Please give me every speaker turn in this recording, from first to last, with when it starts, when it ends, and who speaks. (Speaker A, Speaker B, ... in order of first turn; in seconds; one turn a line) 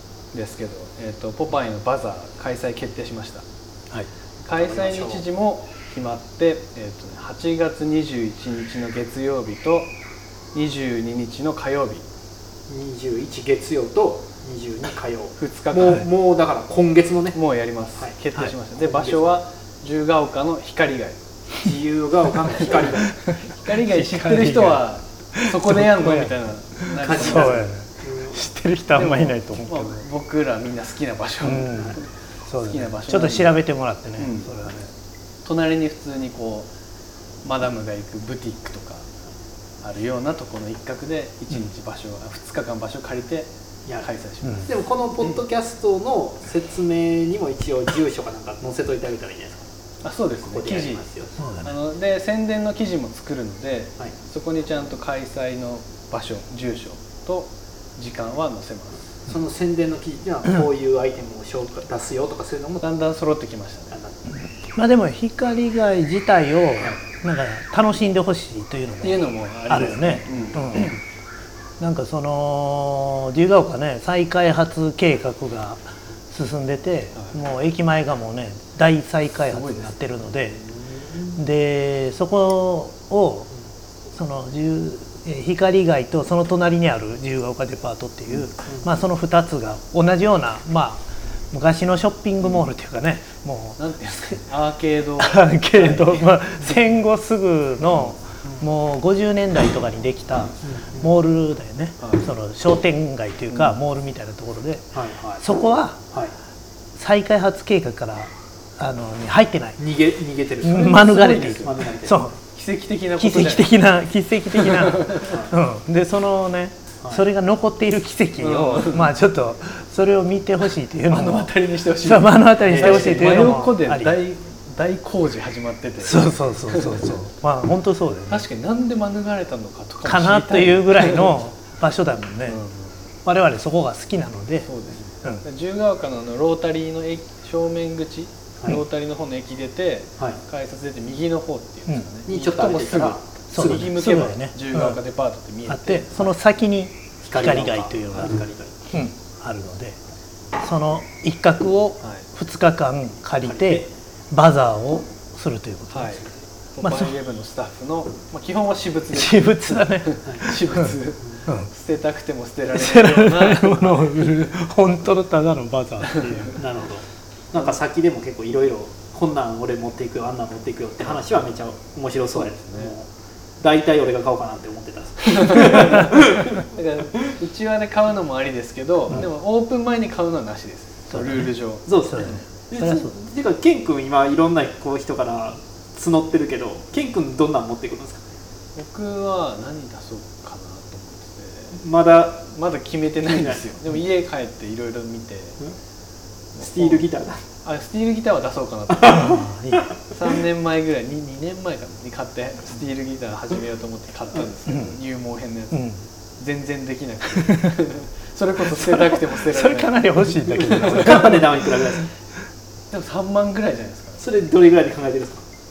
Speaker A: 0.3-3.4
Speaker A: 4.4-9.9
Speaker B: 4.5-5.2
Speaker A: 10.5-12.0
Speaker B: 12.7-17.4
Speaker A: 15.4-16.0
Speaker A: 17.3-21.2
Speaker B: 18.7-19.4
Speaker B: 21.6-23.2
Speaker A: 23.5-27.7
Speaker C: 23.6-24.8
Speaker C: 25.3-30.1
Speaker B: 27.0-28.4
Speaker A: 28.9-33.6
Speaker C: 31.4-34.9
Speaker A: 34.2-34.5
Speaker A: 35.4-36.7
Speaker A: 37.4-39.1
Speaker A: 39.8-44.7
Speaker C: 44.4-44.7
Speaker B: 44.7-49.6
Speaker A: 50.0-59.1
Speaker B: 50.4-51.3
Speaker C: 51.3-51.7
Speaker B: 59.3-62.8
Speaker A: 62.8-64.0
Speaker B: 63.9-64.3
Speaker C: 64.7-71.0
Speaker A: 69.0-71.0
Speaker C: 71.8-80.6
Speaker A: 79.5-81.3
Speaker C: 81.3-83.5
Speaker C: 84.1-94.4
Speaker A: 93.8-96.8
Speaker C: 95.2-106.0
Speaker A: 97.9-98.2
Speaker B: 100.6-101.1
Speaker A: 102.0-102.3
Speaker A: 103.5-103.8
Speaker B: 104.9-105.4
Speaker C: 107.0-109.8
Speaker B: 109.8-110.9
Speaker C: 110.6-112.3
Speaker A: 110.6-111.8
Speaker B: 111.6-112.2
Speaker A: 112.5-113.7
Speaker C: 113.2-124.2
Speaker A: 114.8-115.2
Speaker A: 118.4-119.1
Speaker A: 121.1-127.1
Speaker B: 122.7-123.6
Speaker C: 126.0-128.4
Speaker A: 128.3-131.4
Speaker C: 130.0-132.6
Speaker A: 132.5-133.1
Speaker C: 133.2-134.7
Speaker A: 134.6-146.3
Speaker B: 142.2-143.9
Speaker C: 143.5-145.0
Speaker C: 145.7-149.9
Speaker B: 147.2-148.9
Speaker C: 150.6-156.2
Speaker B: 153.4-153.8
Speaker A: 155.9-164.3
Speaker C: 156.8-157.1
Speaker C: 159.1-161.7
Speaker C: 162.7-166.6
Speaker B: 166.6-173.1
Speaker A: 172.3-172.9
Speaker B: 173.6-176.5
Speaker A: 175.5-182.4
Speaker C: 181.1-183.1
Speaker B: 181.9-188.2
Speaker A: 188.7-191.8
Speaker B: 191.7-192.4
Speaker A: 192.4-195.6
Speaker B: 193.2-193.7
Speaker A: 196.6-197.0
Speaker B: 196.6-197.4
Speaker A: 197.6-199.4
Speaker B: 198.9-199.4
Speaker C: 199.0-199.9
Speaker A: 200.1-205.8
Speaker C: 204.7-205.0
Speaker C: 205.7-206.0
Speaker A: 206.4-210.0
Speaker C: 208.8-211.6
Speaker A: 210.6-211.1
Speaker B: 210.6-212.1
Speaker A: 212.9-214.3
Speaker B: 214.2-215.4